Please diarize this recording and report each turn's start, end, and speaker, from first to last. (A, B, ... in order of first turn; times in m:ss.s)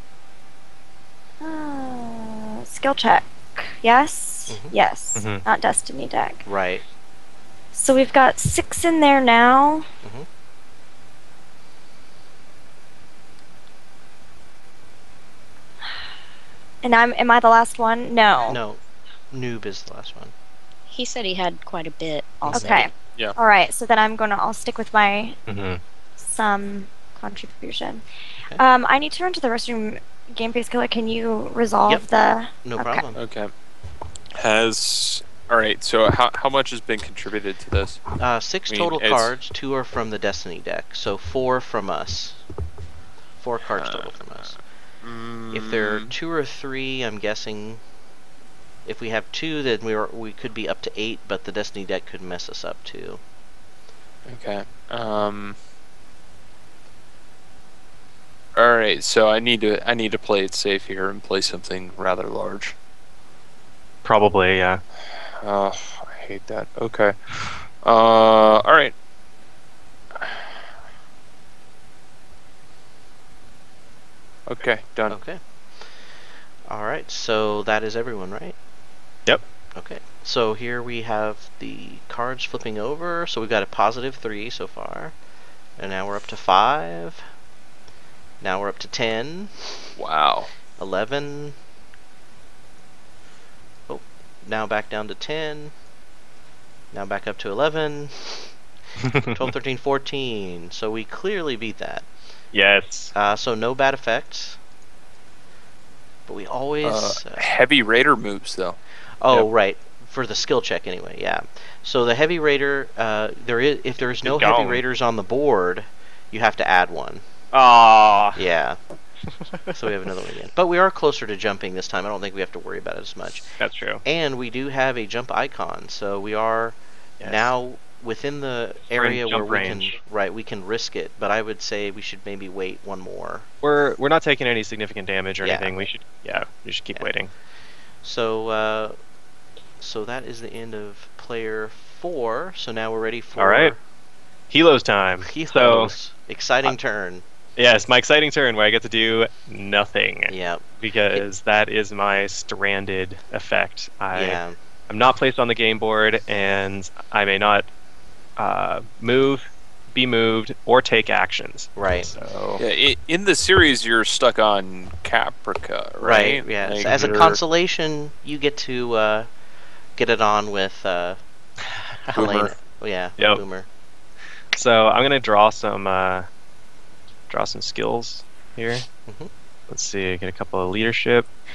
0:01.4-0:06.4 A
0:05.2-0:05.4 B
0:06.4-0:06.8 C
0:07.7-0:09.8 A
0:16.8-0:18.6 A
0:18.5-0:18.8 C
0:19.3-0:20.3 C
0:20.9-0:22.9 D
0:22.5-0:25.4 A
0:22.5-0:23.3 E
0:25.5-0:25.8 B
0:26.2-0:28.0 A
0:28.6-0:33.0 A
0:32.6-0:33.2 C
0:33.1-0:33.5 E
0:34.3-0:38.0 E
0:38.2-0:42.4 C
0:38.7-0:39.3 E
0:43.4-0:44.6 C
0:43.7-0:46.1 E
0:45.5-0:47.8 C
0:48.8-0:53.2 C
0:54.2-0:55.6 E
0:58.5-1:02.8 E
1:04.0-1:04.8 B
1:05.2-1:08.9 E
1:10.2-1:10.6 E
1:14.5-1:15.2 E
1:15.1-1:15.4 C
1:16.6-1:18.6 C
1:19.8-1:25.2 C
1:25.8-1:27.2 C
1:28.4-1:29.9 C
1:30.0-1:30.5 E
1:30.8-1:31.6 C
1:33.9-1:35.7 C
1:36.9-1:38.5 C
1:39.0-1:39.5 B
1:39.3-1:42.1 C
1:42.5-1:43.1 B
1:43.1-1:44.6 C
1:46.3-1:47.5 C
1:46.8-1:48.8 E
1:49.2-1:57.2 C
1:54.2-1:54.8 B
1:57.5-1:58.4 B
1:58.4-1:58.8 C
1:59.5-1:59.7 B
1:59.7-2:13.5 C
2:03.6-2:04.0 B
2:07.2-2:07.5 B
2:08.9-2:10.0 B
2:13.6-2:17.3 B
2:15.4-2:15.8 C
2:18.0-2:19.0 C
2:19.8-2:23.8 C
2:23.4-2:23.7 B
2:24.5-2:25.9 B
2:25.2-2:27.2 C
2:27.6-2:37.7 B
2:30.3-2:31.2 C
2:34.1-2:34.6 C
2:38.4-2:42.6 B
2:41.8-2:42.1 C
2:42.6-2:47.4 E
2:46.0-2:49.3 C
2:50.0-2:51.2 C
2:52.1-2:53.6 C
2:52.1-2:52.5 E
2:53.2-2:53.4 B
2:54.5-2:56.3 B
2:57.3-2:58.8 B
2:59.7-3:01.3 B